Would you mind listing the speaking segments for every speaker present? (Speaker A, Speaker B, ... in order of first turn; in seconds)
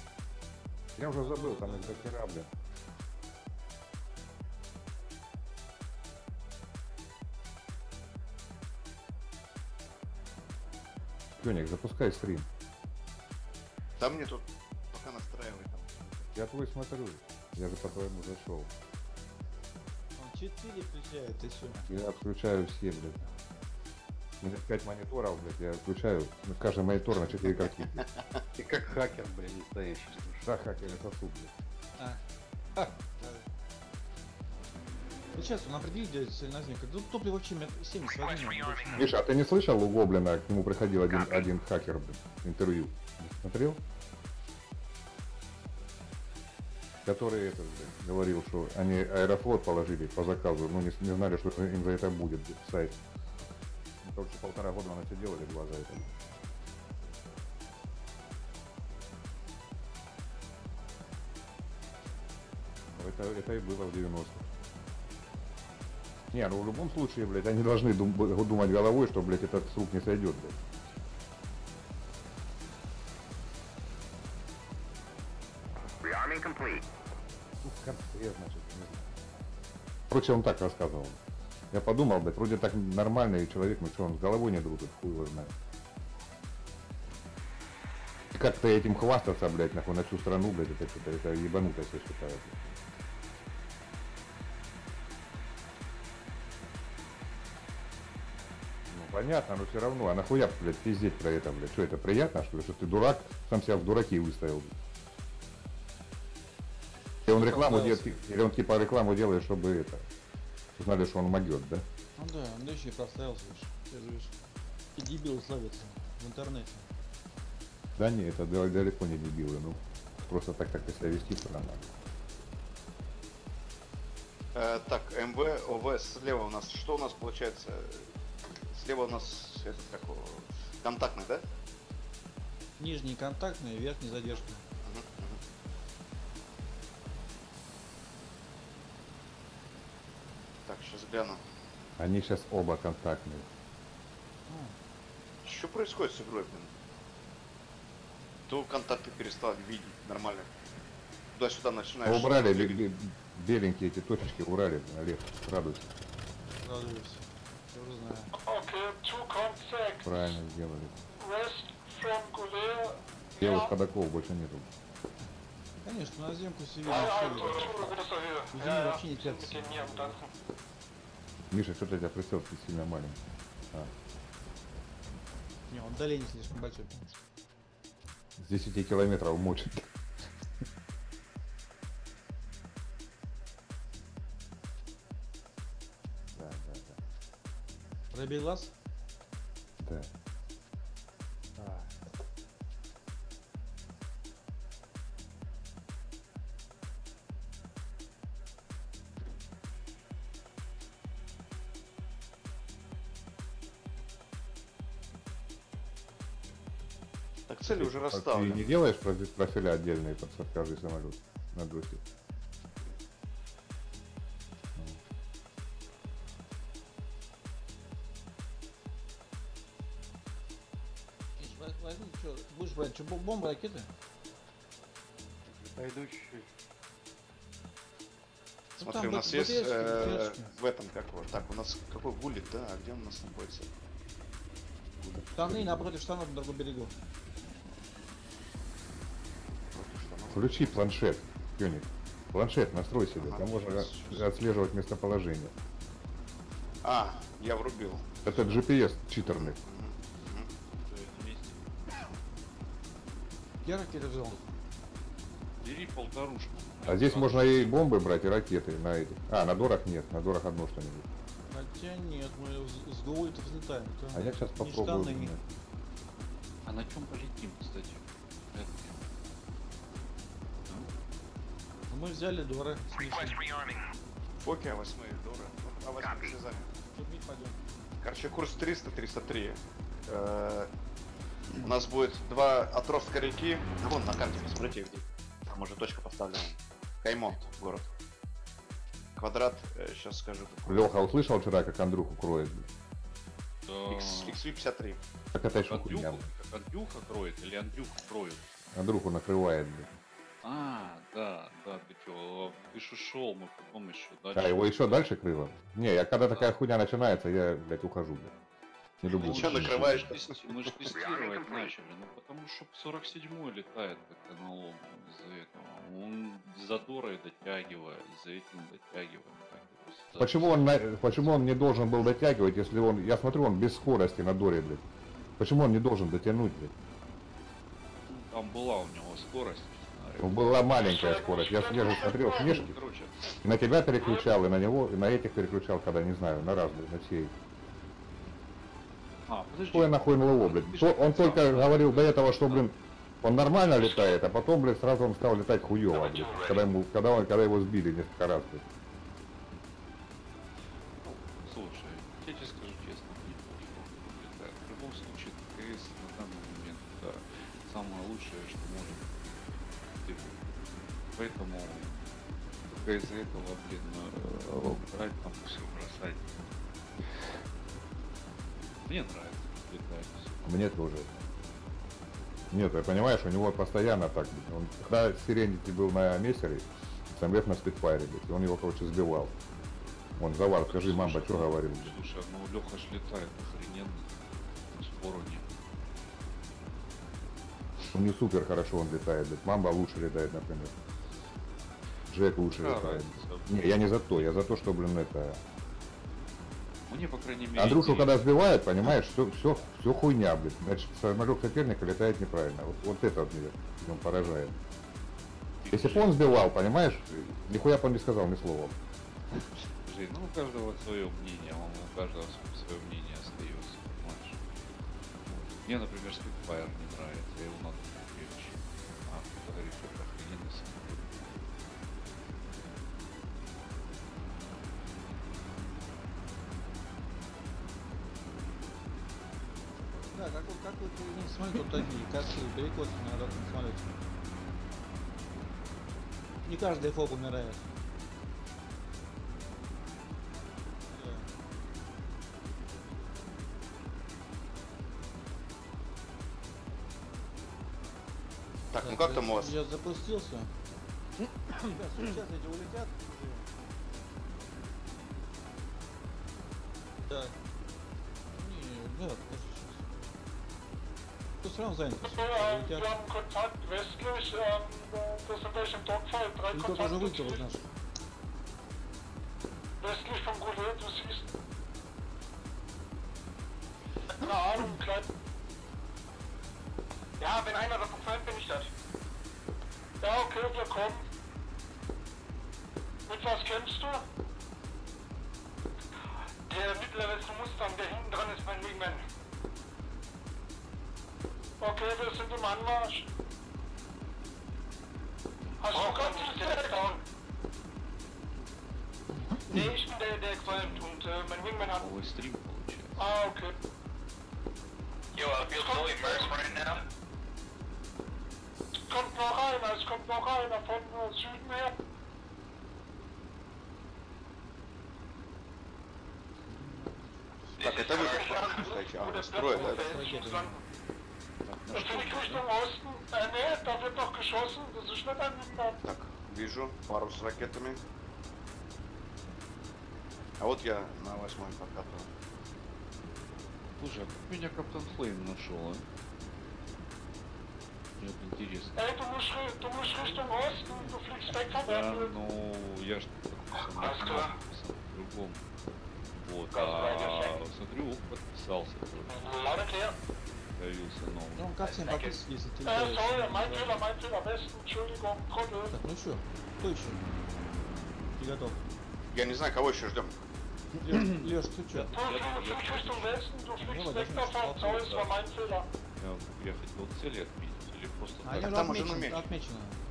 Speaker A: 1.0-2.5, 11.4-12.5, 16.3-18.7, 21.9-23.3, 24.4-28.1, 30.4-31.5, 38.9-43.8, 47.1-53.0, 54.0-56.3, 63.0-64.5, 66.3-70.6, 77.6-79.1, 80.1-81.2, 81.7-85.5, 88.3-92.7, 98.9-104.8, 107.3-110.1, 110.8-111.8, 118.0-121.9, 142.0-143.5, 152.1-155.9, 160.1-161.0, 163.4-164.7, 171.5-173.2, 178.4-179.8, 186.3-187.0, 189.8-190.1, 191.6-191.9, 207.7-212.0, 235.4-235.9, 240.3-245.5, 248.2-249.6, 256.9-261.1, 264.1-265.5, 290.7-292.7, 295.3-296.3, 298.7-300.0, 304.4-308.4, 309.0-310.1, 320.2-324.9, 325.4-326.7, 330.2-332.8, 333.4-337.3, 339.7-348.6, 370.4-371.3, 372.5-379.4, 380.2-382.0, 387.9-390.8, 392.1-395.4, 397.6-404.6, 405.7-408.8
Speaker B: 1.2-2.1, 20.2-21.9, 32.8-33.5, 35.4-39.0, 107.3-108.2, 112.2-114.3, 115.0-116.9, 132.8-134.6, 144.5-144.8, 156.6-158.3, 165.8-167.9, 168.5-170.2, 175.7-177.2, 188.1-188.7, 221.4-223.9, 228.8-230.5, 235.4-236.9, 253.6-254.4, 261.5-265.3, 271.9-273.4, 276.9-277.6, 429.9-433.9, 436.4-437.6, 440.9-441.3, 448.8-450.5, 451.7-453.5, 457.1-457.4, 458.3-459.9, 461.4-462.9, 466.5-467.6, 516.5-517.2, 519.5-520.5, 540.0-541.0, 551.4-553.7, 555.7-557.0, 558.2-558.6, 560.8-561.9, 563.6-564.8, 568.2-569.8
Speaker C: 14.0-16.2, 124.5-131.4, 134.8-135.4, 140.7-141.4, 145.4-146.8, 148.5-150.5, 151.3-152.8, 207.5-208.7, 228.8-233.7, 239.7-240.9, 243.2-244.3, 246.8-248.6, 249.3-250.5, 274.4-276.7, 278.0-280.7, 281.6-287.9, 289.2-291.1, 293.9-295.0, 309.1-310.9, 448.7-449.6, 517.6-520.0, 525.8-527.8, 530.4-532.1, 559.1-560.2, 568.4-569.3
Speaker D: 28.6-30.5, 225.5-226.5
Speaker E: 38.1-39.1, 41.1-41.5, 273.0-273.8, 310.9-311.7, 343.7-344.1, 345.9-346.7, 495.7-496.6, 505.1-506.9, 517.6-518.6, 543.9-544.1, 546.5-547.4, 551.6-552.2
Speaker F: 158.3-160.4, 161.2-163.7, 166.8-170.3, 330.7-332.6, 334.0-334.3, 462.1-467.5, 469.8-471.3, 474.1-475.1, 477.2-478.7, 480.0-481.0, 483.1-484.1, 486.5-489.1, 491.6-493.1, 495.6-497.0, 499.5-501.9, 503.0-503.5, 505.5-506.4, 508.9-511.7, 517.6-520.6, 521.7-525.8, 538.8-542.1, 543.8-544.4, 549.1-550.0, 552.6-555.8, 562.0-565.7
Speaker G: 250.9-251.6, 253.7-254.4, 255.6-257.9, 266.7-268.9, 293.7-294.4, 295.7-298.5, 300.4-305.1, 309.1-321.2, 328.1-330.6, 331.7-333.3, 339.3-342.7, 351.0-359.1, 360.0-360.4, 361.2-362.0, 362.7-366.3, 368.9-370.6, 380.6-384.1, 384.7-385.4, 392.5-393.5, 396.9-398.2, 405.6-406.2, 409.9-414.4, 415.3-421.2, 451.2-451.8, 500.4-500.9, 501.6-503.3, 521.5-522.4, 533.8-535.9, 538.0-538.7, 541.5-545.4, 546.2-549.2, 550.6-551.5, 560.9-561.2, 561.7-563.2, 564.6-565.1, 566.0-568.9